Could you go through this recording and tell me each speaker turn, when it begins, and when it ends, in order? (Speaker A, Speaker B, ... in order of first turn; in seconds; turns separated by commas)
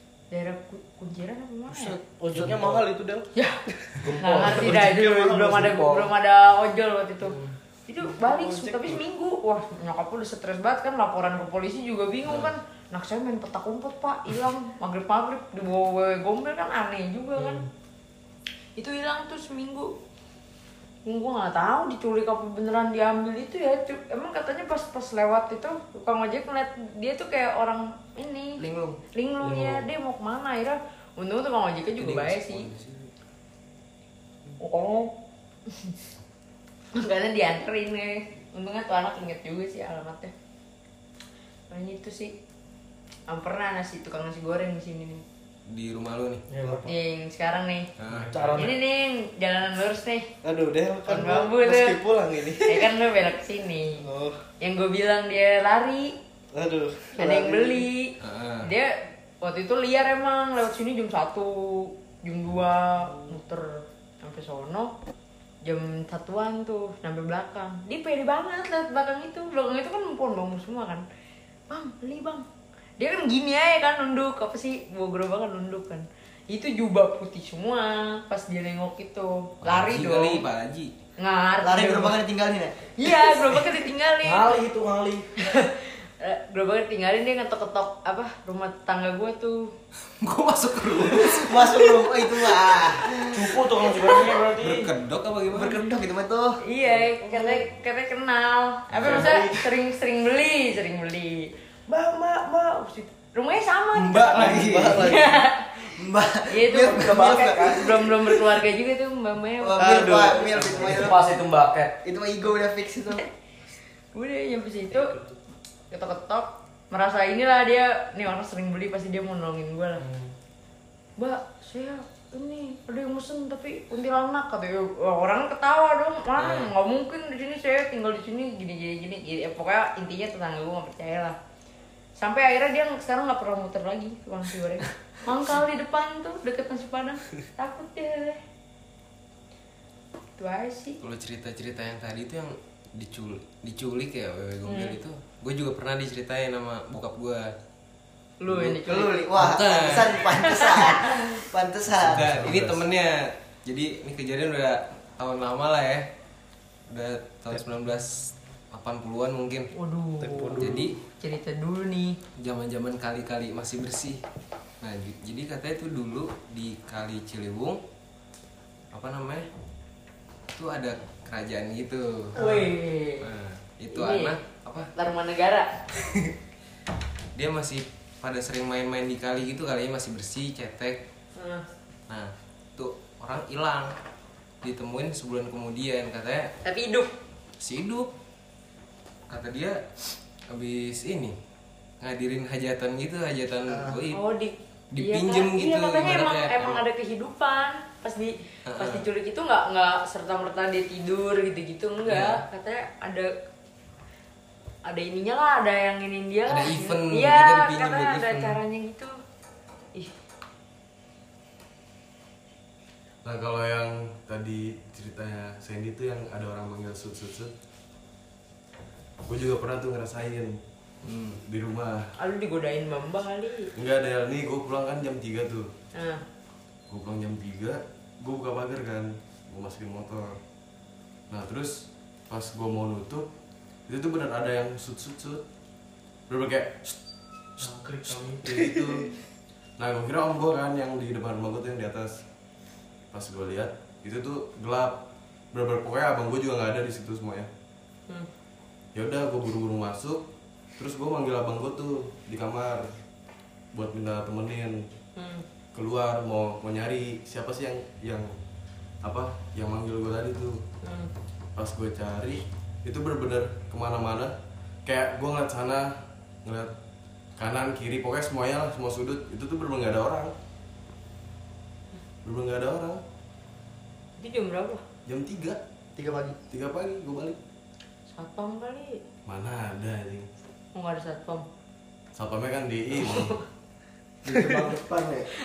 Speaker A: 0.3-2.0, Speaker B: 1.7-2.9, Speaker C: 2.4-3.3, Speaker A: 3.3-3.6, Speaker C: 3.9-5.7, Speaker B: 4.0-6.1, Speaker A: 4.2-17.6, Speaker B: 7.2-7.5, Speaker C: 8.2-9.0, Speaker B: 17.4-17.6, Speaker A: 18.8-19.9, Speaker A: 21.0-32.7, Speaker B: 29.4-29.8, Speaker D: 32.0-33.1, Speaker B: 34.6-35.1, Speaker A: 36.9-40.3, Speaker A: 41.7-42.3, Speaker A: 43.3-45.2, Speaker D: 45.7-46.4, Speaker B: 46.5-46.9, Speaker A: 46.8-47.9, Speaker D: 48.0-48.5, Speaker B: 48.3-48.8, Speaker A: 48.5-50.3, Speaker C: 50.4-52.9, Speaker A: 51.1-52.0, Speaker A: 52.6-54.0, Speaker C: 54.0-54.4, Speaker A: 54.6-56.2, Speaker C: 56.5-57.9, Speaker A: 57.1-64.9, Speaker D: 58.2-58.7, Speaker A: 65.6-71.0, Speaker A: 71.7-72.4, Speaker A: 73.0-80.4, Speaker D: 79.6-80.9, Speaker A: 81.2-82.2, Speaker E: 81.6-83.6, Speaker A: 83.0-84.5, Speaker B: 84.2-85.3, Speaker A: 85.4-89.7, Speaker D: 90.2-92.1, Speaker E: 91.0-93.4, Speaker B: 93.3-94.9, Speaker D: 94.6-95.8, Speaker E: 95.5-96.6, Speaker A: 96.6-106.0, Speaker D: 98.9-99.4, Speaker E: 99.0-99.6, Speaker D: 103.9-105.0, Speaker C: 104.3-105.4, Speaker E: 105.8-108.2, Speaker A: 106.5-110.7, Speaker B: 106.9-107.8, Speaker E: 109.6-111.2, Speaker C: 109.8-111.1, Speaker B: 110.8-112.0, Speaker E: 112.0-113.2, Speaker A: 114.1-115.1, Speaker A: 115.9-120.0, Speaker A: 121.2-131.4, Speaker D: 126.4-126.7, Speaker A: 132.2-138.4, Speaker A: 140.4-141.0, Speaker D: 141.0-147.5, Speaker A: 144.7-145.0, Speaker A: 148.4-149.6, Speaker E: 148.6-152.5, Speaker D: 149.3-150.3, Speaker A: 150.1-151.4, Speaker D: 152.0-156.1, Speaker F: 152.0-152.8, Speaker D: 156.9-159.7, Speaker A: 159.7-160.6, Speaker C: 160.2-160.9, Speaker D: 160.6-161.0, Speaker A: 161.2-162.2, Speaker D: 162.4-164.2, Speaker D: 164.8-167.8, Speaker D: 168.9-169.5, Speaker D: 170.5-172.4, Speaker A: 172.3-173.3, Speaker B: 172.4-172.7, Speaker D: 173.2-174.9, Speaker A: 173.9-174.3, Speaker A: 174.9-175.8, Speaker D: 176.0-176.3, Speaker D: 177.3-181.0, Speaker A: 181.3-181.7, Speaker D: 182.1-183.9, Speaker D: 184.6-186.5, Speaker A: 186.6-187.1, Speaker D: 187.6-188.1, Speaker D: 189.3-191.3, Speaker D: 192.0-194.2, Speaker E: 193.7-194.0, Speaker A: 194.1-203.3, Speaker D: 194.9-196.8, Speaker D: 198.7-199.1, Speaker D: 202.1-202.4, Speaker A: 204.8-209.2, Speaker D: 206.5-208.6, Speaker F: 213.2-217.5, Speaker F: 219.2-222.1, Speaker D: 221.0-221.3, Speaker A: 222.2-223.7, Speaker F: 223.8-225.7, Speaker A: 225.9-226.2, Speaker F: 226.9-230.4, Speaker F: 231.3-233.3, Speaker F: 233.9-235.4, Speaker F: 236.3-237.0, Speaker F: 237.6-239.1, Speaker B: 237.7-238.4, Speaker F: 239.8-242.2, Speaker F: 243.1-245.0, Speaker F: 245.5-247.5, Speaker F: 248.9-252.9, Speaker F: 253.7-254.8, Speaker A: 255.2-255.4, Speaker F: 255.7-258.3, Speaker F: 259.0-260.6, Speaker A: 260.8-261.1, Speaker F: 261.6-264.3, Speaker F: 264.9-266.7, Speaker F: 267.4-270.3, Speaker F: 272.2-273.0, Speaker A: 274.2-274.8, Speaker F: 275.1-275.6, Speaker E: 275.9-276.4, Speaker F: 276.5-277.4, Speaker A: 278.1-279.0, Speaker F: 279.2-280.3, Speaker A: 280.7-281.4, Speaker F: 282.1-283.3, Speaker A: 283.0-283.4, Speaker E: 284.2-285.3